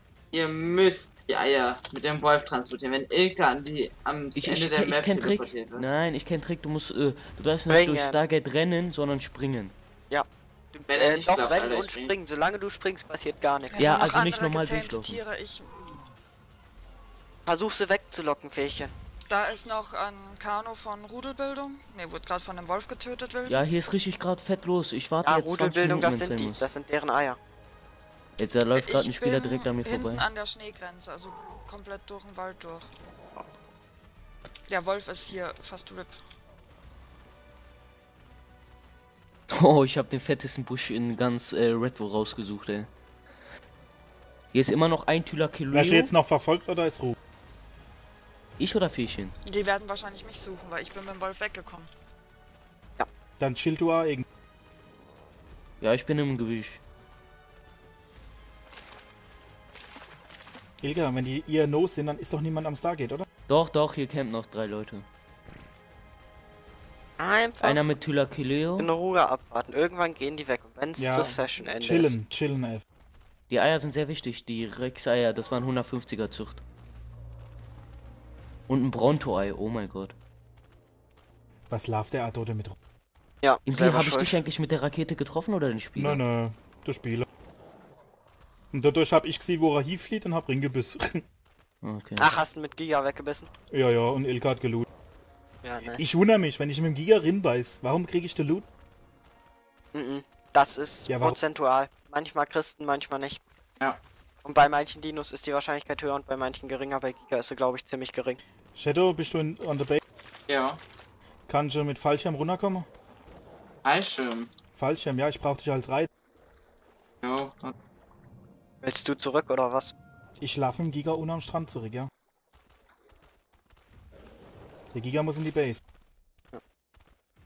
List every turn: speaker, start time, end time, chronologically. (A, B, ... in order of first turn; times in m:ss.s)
0:00.3-0:05.9 A
0:04.3-0:09.8 B
0:07.7-0:08.2 C
0:10.1-0:14.1 C
0:10.9-0:12.1 A
0:13.7-0:15.7 D
0:13.8-0:15.2 B
0:17.5-0:19.0 C
0:19.3-0:23.6 D
0:23.5-0:26.6 B
0:25.2-0:27.4 C
0:28.4-0:30.3 B
0:28.8-0:32.9 D
0:34.7-0:36.2 D
0:39.5-0:42.9 B
0:44.5-0:46.1 B
0:45.7-0:47.2 E
0:48.6-0:49.4 B
0:49.5-0:51.9 D
0:53.4-0:54.2 E
0:55.8-0:56.8 B
1:00.8-1:03.3 E
1:03.5-1:05.1 B
1:07.2-1:07.8 C
1:07.6-1:08.9 B
1:08.8-1:12.2 C
1:11.0-1:12.8 E
1:13.5-1:16.6 B
1:18.7-1:20.2 B
1:21.7-1:22.8 E
1:23.4-1:24.4 C
1:23.7-1:26.2 B
1:26.0-1:27.3 E
1:28.7-1:31.2 E
1:31.8-1:32.3 B
1:32.2-1:33.5 C
1:33.7-1:34.9 E
1:35.6-1:36.1 C
1:36.0-1:38.7 E
1:39.9-1:43.4 C
1:41.1-1:41.4 E
1:44.4-1:48.4 C
1:48.8-1:50.0 E
1:50.5-1:50.8 A
1:51.5-1:52.9 E
1:53.8-1:54.5 A
1:54.8-1:56.1 E
1:57.2-1:57.7 A
1:58.8-1:59.9 C
2:00.4-2:02.1 E
2:04.9-2:05.8 E